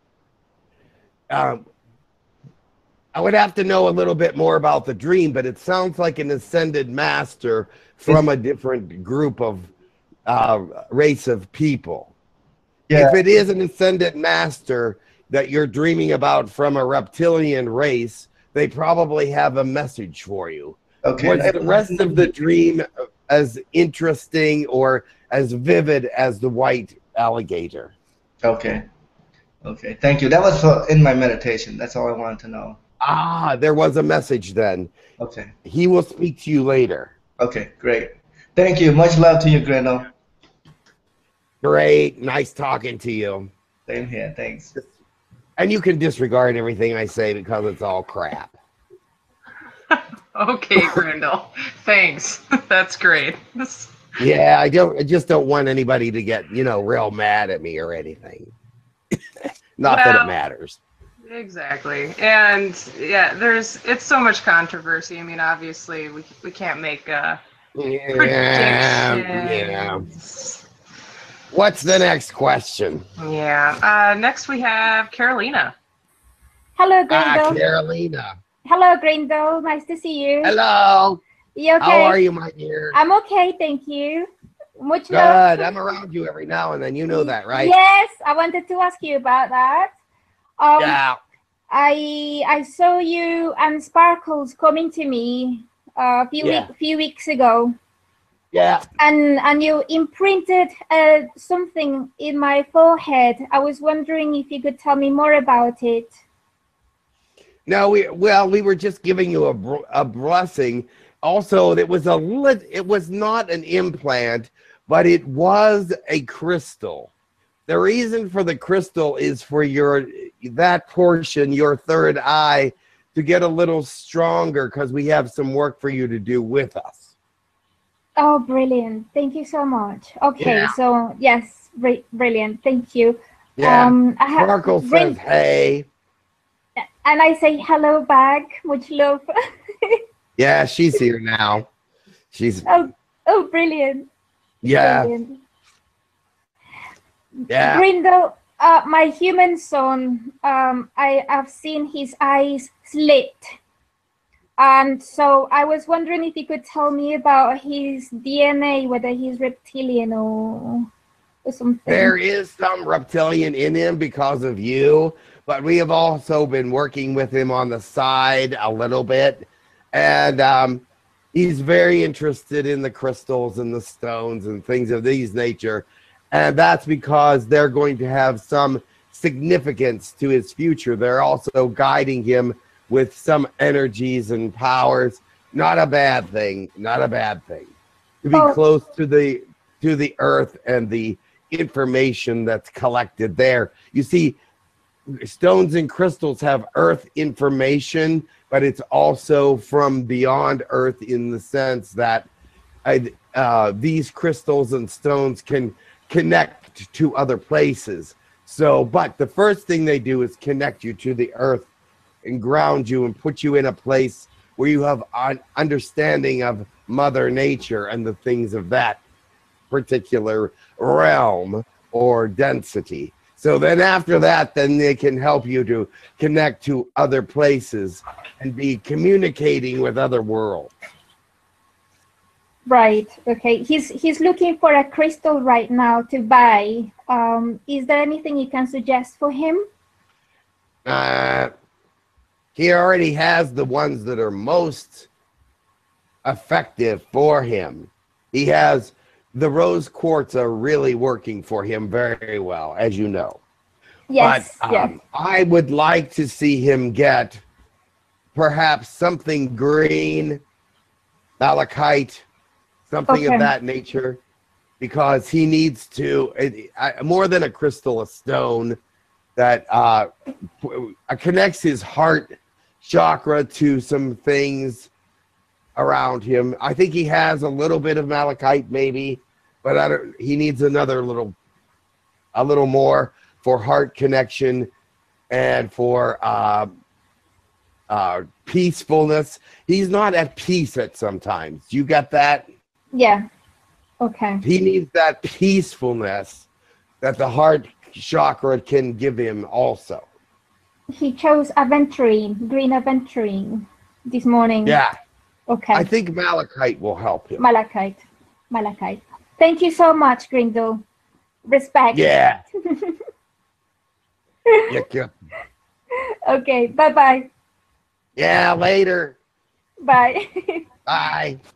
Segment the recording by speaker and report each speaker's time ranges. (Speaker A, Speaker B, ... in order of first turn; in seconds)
Speaker A: 1.3-1.6, 3.1-9.7, 10.3-12.1, 12.9-27.9, 33.0-34.9, 35.6-37.1, 41.6-43.5, 45.6-48.5, 54.2-58.5, 59.8-60.8, 67.8-70.0, 71.5-73.0, 77.1-78.4, 80.4-81.2, 81.8-83.0, 85.1-87.7, 90.8-91.2, 96.4-96.7, 98.5-98.9, 107.7-117.1, 117.7-127.1, 130.4-130.7, 133.6-135.9, 140.4-141.7, 142.3-142.7, 144.6-145.1, 147.5-147.8, 161.9-194.4, 195.1-202.3, 202.8-211.7, 212.2-219.0, 219.7-230.7, 240.8-241.5, 242.6-245.1, 246.2-253.4, 254.2-257.4, 258.4-260.4, 261.4-262.3, 262.9-264.2, 264.8-268.8, 269.4-274.9, 275.8-281.4, 282.3-284.7, 285.3-286.8, 287.9-292.5, 294.4-296.5, 297.0-300.1, 304.6-305.0, 305.7-307.4, 311.9-312.4, 314.7-315.1, 318.2-319.2, 320.9-321.4
Speaker B: 12.9-13.2, 21.0-22.2, 28.4-28.9, 29.6-32.8, 35.2-35.5, 37.4-40.1, 43.9-44.7
Speaker C: 49.9-53.9, 59.9-60.3, 61.2-67.4, 68.2-70.6, 73.2-75.7
Speaker D: 76.8-77.6, 78.7-80.5, 81.6-82.2, 82.9-85.7, 87.1-89.9, 90.6-91.0, 91.7-97.8, 99.0-106.1, 128.2-135.2, 136.8-139.3, 142.7-144.1, 144.8-145.4, 147.5-153.5, 154.6-160.9, 161.4-162.1, 188.3-188.6, 232.7-239.7, 254.1-254.9, 263.1-263.5, 292.9-293.3, 294.0-294.4, 300.9-304.8, 305.5-305.9, 307.4-310.8, 311.5-313.0, 316.3-317.3, 319.8-320.6